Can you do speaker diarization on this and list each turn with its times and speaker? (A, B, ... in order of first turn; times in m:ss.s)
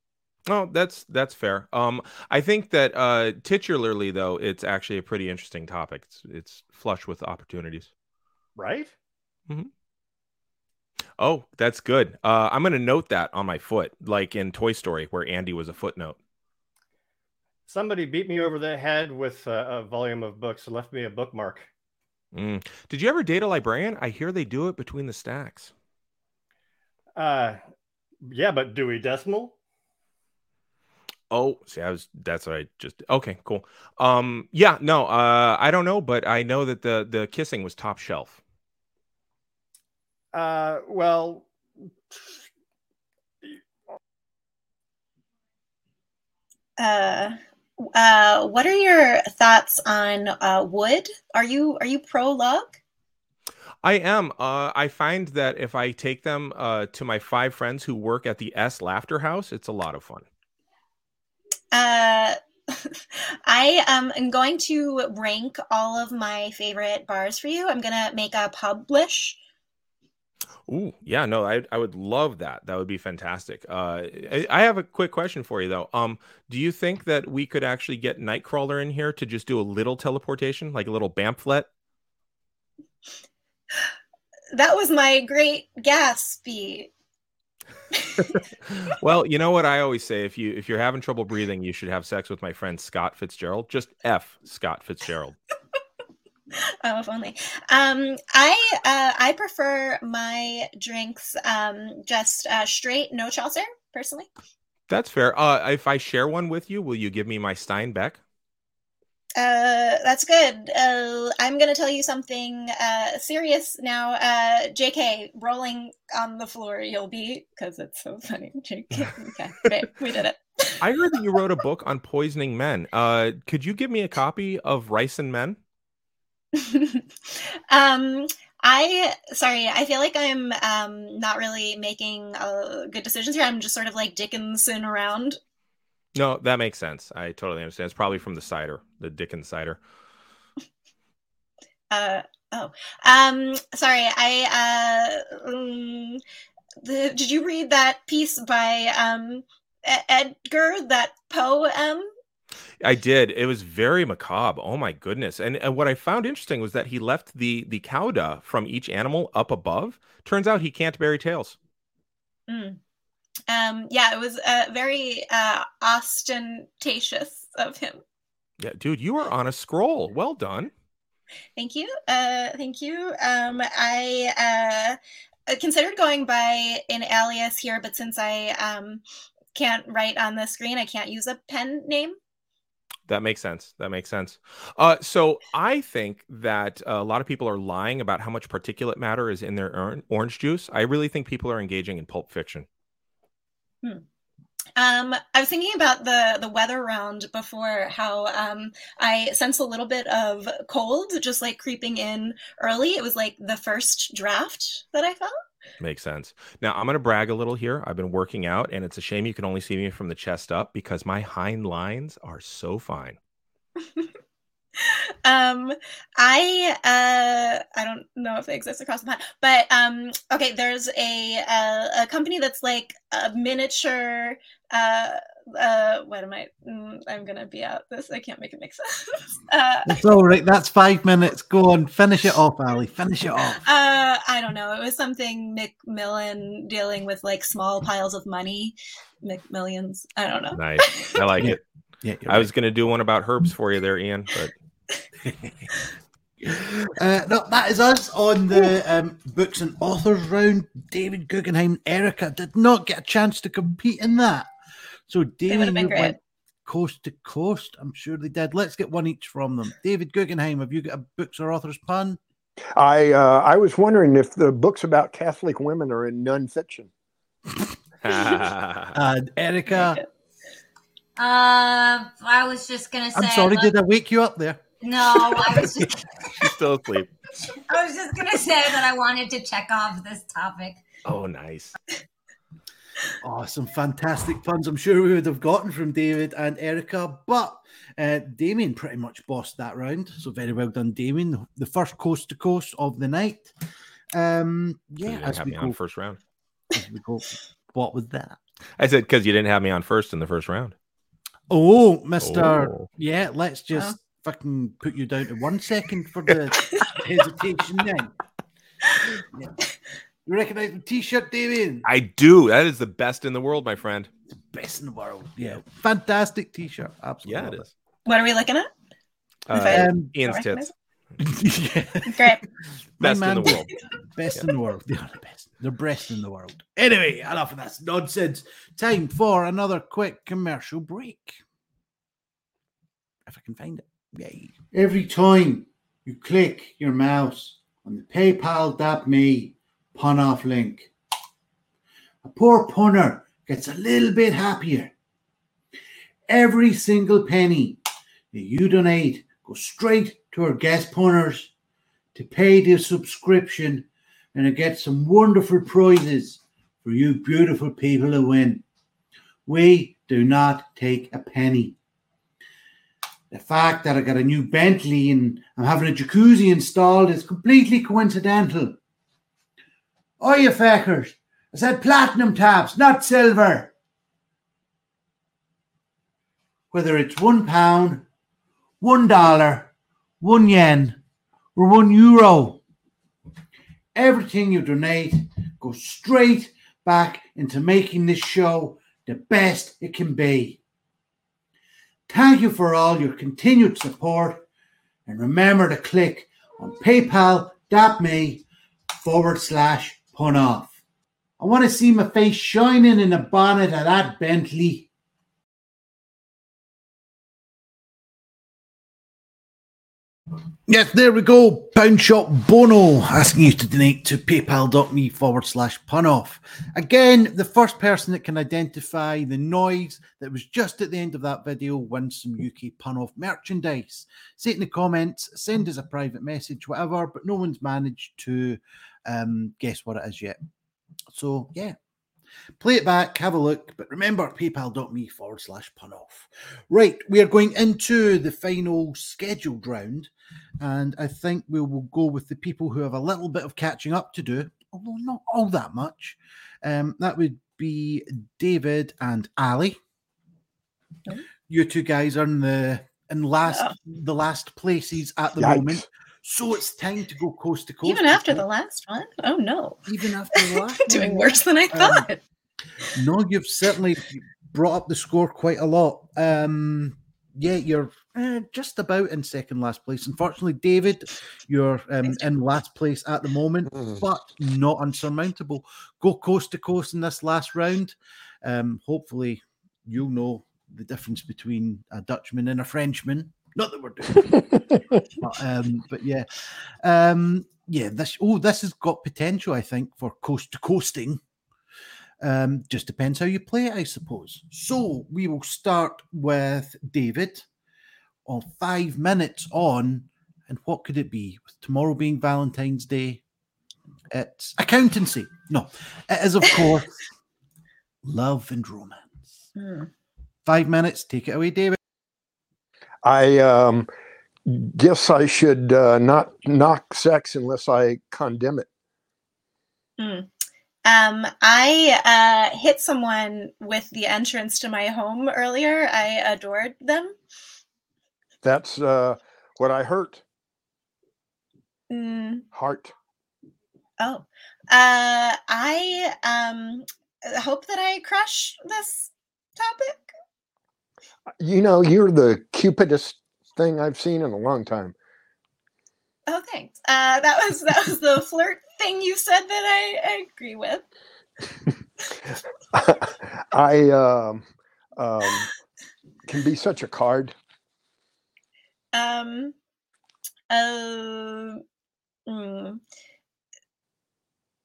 0:00.5-0:07.9 A
0:08.6-0:08.9 B
0:11.2-0:16.2 A
0:17.7-0:21.7 B
0:22.3-0:25.7 A
0:27.2-0:27.6 B
0:28.2-0:29.5 B
0:31.3-0:38.4 A
0:40.3-0:41.5 B
0:46.8-0:52.8 C
0:53.8-1:00.2 A
1:01.7-1:09.4 C
1:10.7-1:21.7 A
1:24.5-1:26.9 C
1:28.7-1:35.4 A
1:36.8-1:44.3 C
1:44.9-1:48.2 A
1:49.4-2:00.8 C
2:00.8-2:05.6 A
2:06.6-2:15.4 C
2:16.2-2:19.8 A
2:21.9-2:26.2 C
2:26.8-2:32.1 C
2:32.8-2:41.6 A
2:42.5-2:42.8 C
2:43.5-2:48.0 C
2:48.6-2:50.7 A
2:51.6-2:59.0 C
2:59.6-3:02.2 C
3:03.1-3:12.7 A
3:14.8-3:25.3 C
3:25.8-3:33.2 A
3:34.8-3:50.0 C
3:49.9-3:53.6 D
3:53.6-4:01.1 C
4:00.5-4:01.6 A
4:01.4-4:02.5 D
4:02.3-4:04.5 A
4:05.2-4:05.7 D
4:06.4-4:14.5 D
4:15.1-4:22.2 D
4:15.5-4:16.2 C
4:22.8-4:26.9 E
4:28.0-4:29.0 A
4:28.9-4:30.0 D
4:31.2-4:33.7 F
4:33.2-4:35.9 D
4:34.8-4:36.0 F
4:36.3-4:37.1 A
4:37.7-4:40.8 F
4:41.0-4:41.8 A
4:43.2-4:53.5 D
4:54.1-4:55.8 D
4:55.0-4:56.2 A
4:56.7-4:58.4 D
4:58.8-5:00.8 A
5:01.5-5:08.1 D
5:02.2-5:02.9 A
5:09.3-5:09.6 D
5:10.3-5:11.9 D
5:11.8-5:14.1 A
5:14.5-5:17.7 D
5:17.3-5:17.7 A
5:18.1-5:18.7 C
5:19.5-5:20.7 A
5:19.5-5:20.7 C
5:19.6-5:20.1 D
5:21.2-5:22.4 D
5:22.1-5:22.4 C
5:23.0-5:31.4 D
5:23.0-5:23.7 A
5:33.3-5:40.9 D
5:42.2-5:44.9 D
5:46.3-5:47.8 D
5:48.3-5:51.5 D
5:52.2-5:58.6 D
5:59.5-6:01.8 D
6:03.3-6:08.8 D
6:10.2-6:13.7 D
6:16.7-6:18.0 D
6:18.8-6:21.0 D
6:21.6-6:22.6 D
6:24.0-6:30.6 D
6:32.1-6:34.4 D
6:35.1-6:38.4 D
6:39.0-6:40.7 D
6:41.4-6:44.9 D
6:50.7-7:10.4 D
7:11.1-7:11.8 D
7:12.6-7:29.8 D
7:31.5-7:38.4 D
7:33.5-7:33.7 C
7:35.4-7:35.8 E
7:37.9-7:39.8 C
7:39.9-7:42.1 D
7:40.4-7:42.2 C
7:42.9-8:06.3 D
7:53.7-7:54.0 E
8:04.2-8:05.0 E
8:06.8-8:11.2 D
8:12.2-8:17.5 D
8:18.3-8:23.2 D
8:24.1-8:27.0 D
8:28.0-8:29.4 D
8:29.6-8:29.9 C
8:30.4-8:31.8 D
8:33.0-8:33.9 E
8:34.5-8:38.7 E
8:40.0-8:40.3 C
8:40.9-8:47.1 C
8:48.4-8:50.2 E
8:51.9-8:52.4 C
8:52.5-8:52.9 E
8:54.0-9:00.1 C
9:01.4-9:04.9 E
9:06.3-9:10.8 C
9:12.7-9:15.5 E
9:16.3-9:17.4 E
9:18.9-9:19.6 C
9:20.5-9:21.6 C
9:22.3-9:22.8 C